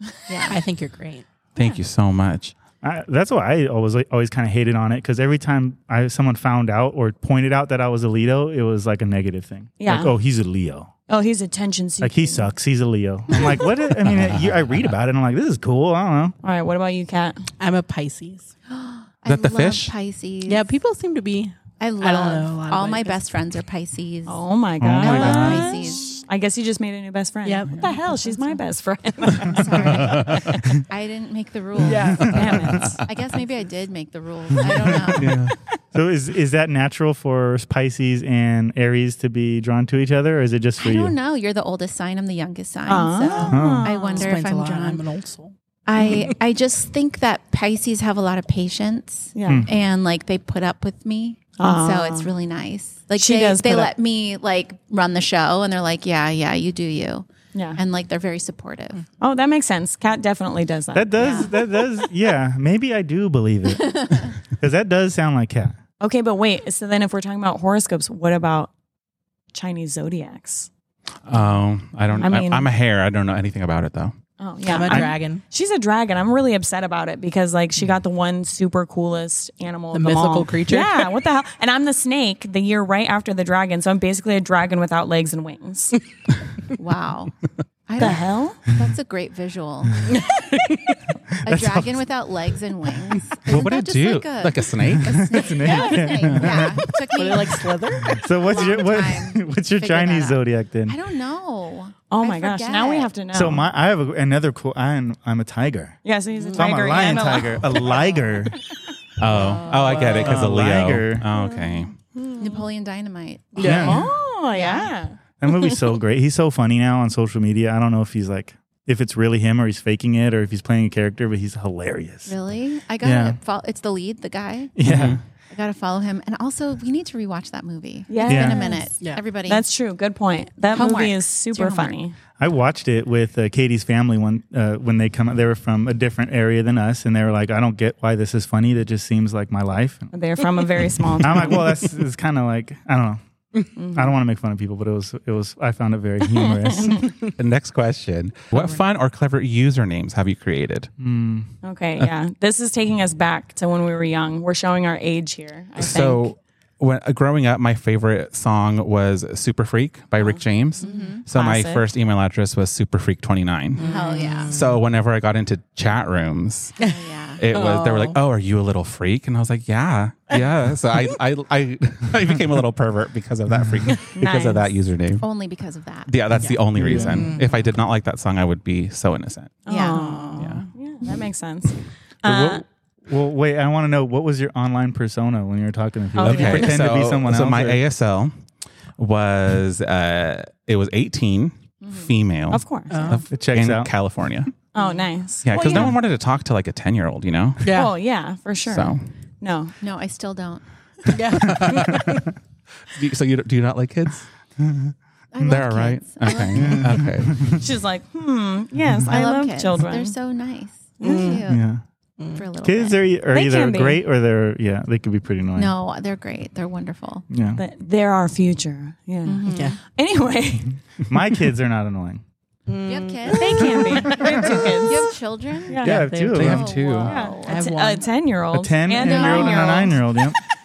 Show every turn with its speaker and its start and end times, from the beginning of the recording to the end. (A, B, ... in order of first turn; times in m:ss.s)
0:00.3-0:00.6 A
0:00.5-0:01.3 B
0:01.6-0:02.5 C
0:02.8-0:10.9 D
0:09.8-0:10.2 E
0:11.1-0:12.5 E
0:12.0-0:16.3 D
0:14.0-0:14.4 C
0:16.4-0:17.5 E
0:17.6-0:18.5 B
0:18.7-0:20.8 A
0:19.3-0:19.9 C
0:20.5-0:23.2 B
0:21.8-0:24.4 A
0:24.3-0:30.6 E
0:24.8-0:25.7 D
0:24.9-0:25.4 C
0:24.9-0:26.2 A
0:27.4-0:28.6 B
0:29.4-0:35.3 A
0:29.5-0:30.7 C
0:31.8-0:32.4 B
0:31.8-0:33.0 E
0:32.2-0:32.9 D
0:35.1-0:35.5 C
0:35.2-0:41.1 D
0:40.8-0:45.0 A
0:42.9-0:44.3 E
0:43.5-0:43.9 D
0:44.1-0:45.5 B
0:45.9-0:59.0 A
0:49.4-0:49.7 E
0:51.6-0:52.3 E
0:53.2-0:53.9 E
0:57.5-0:57.8 E
0:59.2-1:01.6 E
1:01.0-1:05.8 D
1:01.2-1:01.5 A
1:03.8-1:04.3 A
1:06.0-1:08.7 E
1:09.5-1:10.7 E
1:11.2-1:14.1 C
1:12.2-1:12.7 E
1:14.4-1:26.0 E
1:14.6-1:15.4 B
1:14.9-1:15.2 D
1:19.9-1:21.1 B
1:26.8-1:27.3 A
1:27.9-1:30.1 A
1:28.0-1:28.6 E
1:30.1-1:31.0 B
1:31.4-1:43.1 A
1:31.5-1:32.0 D
1:33.4-1:35.3 C
1:35.1-1:36.9 D
1:37.1-1:38.3 B
1:38.1-1:41.0 D
1:42.1-1:43.7 E
1:43.3-1:46.0 D
1:46.0-1:48.2 E
1:46.4-1:46.9 B
1:46.5-1:48.6 D
1:49.2-1:51.9 C
1:49.3-1:50.2 A
1:49.6-1:50.4 B
1:50.2-1:51.3 D
1:51.3-1:52.6 E
1:52.4-1:54.0 A
1:53.6-1:54.1 B
1:53.6-1:54.1 D
1:53.7-1:55.9 E
1:54.5-1:55.0 A
1:55.4-2:02.3 D
2:02.3-2:09.6 A
2:03.0-2:03.4 D
2:04.8-2:05.2 D
2:04.8-2:05.2 C
2:08.1-2:08.9 E
2:08.3-2:08.6 D
2:08.3-2:09.2 B
2:09.5-2:12.2 E
2:10.7-2:12.0 A
2:12.4-2:20.1 D
2:20.1-2:21.8 E
2:21.2-2:23.2 D
2:23.8-2:27.1 D
2:23.8-2:24.1 E
2:26.5-2:27.1 E
2:27.4-2:30.9 C
2:31.0-2:31.5 D
2:31.6-2:36.3 E
2:35.8-2:46.7 C
2:40.8-2:41.2 A
2:41.3-2:41.9 E
2:43.8-2:44.8 B
2:43.9-2:44.6 A
2:46.8-2:47.5 A
2:46.8-2:48.2 B
2:47.4-2:55.3 C
2:53.7-2:53.9 D
2:54.2-2:54.7 E
2:55.2-2:56.1 A
2:56.1-2:59.7 C
2:56.4-2:57.5 B
2:56.8-2:57.1 D
2:59.6-3:02.6 E
2:59.7-3:00.2 A
2:59.9-3:00.5 B
3:00.4-3:00.7 C
3:02.2-3:07.8 D
3:06.2-3:06.8 E
3:06.2-3:08.3 C
3:09.0-3:14.5 C
3:11.8-3:12.1 A
3:12.5-3:13.2 E
3:12.9-3:13.3 B
3:13.3-3:13.9 D
3:14.7-3:16.0 E
3:15.4-3:17.7 C
3:15.6-3:15.9 A
3:17.6-3:17.9 B
3:17.7-3:19.8 E
3:18.7-3:19.1 C
3:19.8-3:20.6 A
3:21.1-3:22.2 B
3:21.5-3:22.2 D
3:22.9-3:24.3 C
3:24.6-3:24.9 D
3:25.3-3:27.0 A
3:25.4-3:27.6 C
3:26.6-3:27.6 D
3:27.5-3:30.1 E
3:29.1-3:31.7 A
3:31.0-3:31.4 E
3:31.0-3:31.4 B
3:31.5-3:31.8 D
3:32.3-3:33.0 A
3:32.6-3:35.7 D
3:33.3-3:34.0 E
3:35.6-3:37.2 A
3:37.3-3:37.6 D
3:37.6-3:40.8 E
3:39.2-3:39.8 A
3:39.5-3:39.8 B
3:41.0-3:42.2 D
3:42.7-3:44.1 B
3:42.8-3:45.8 A
3:43.3-3:45.1 E
3:44.1-3:44.7 D
3:45.7-3:46.1 E
3:45.8-3:46.6 D
3:45.9-3:46.7 B
3:45.9-3:47.1 C
3:46.4-3:47.7 A
3:47.0-3:50.0 E
3:47.5-3:48.1 B
3:48.5-3:50.4 D
3:48.9-3:49.9 A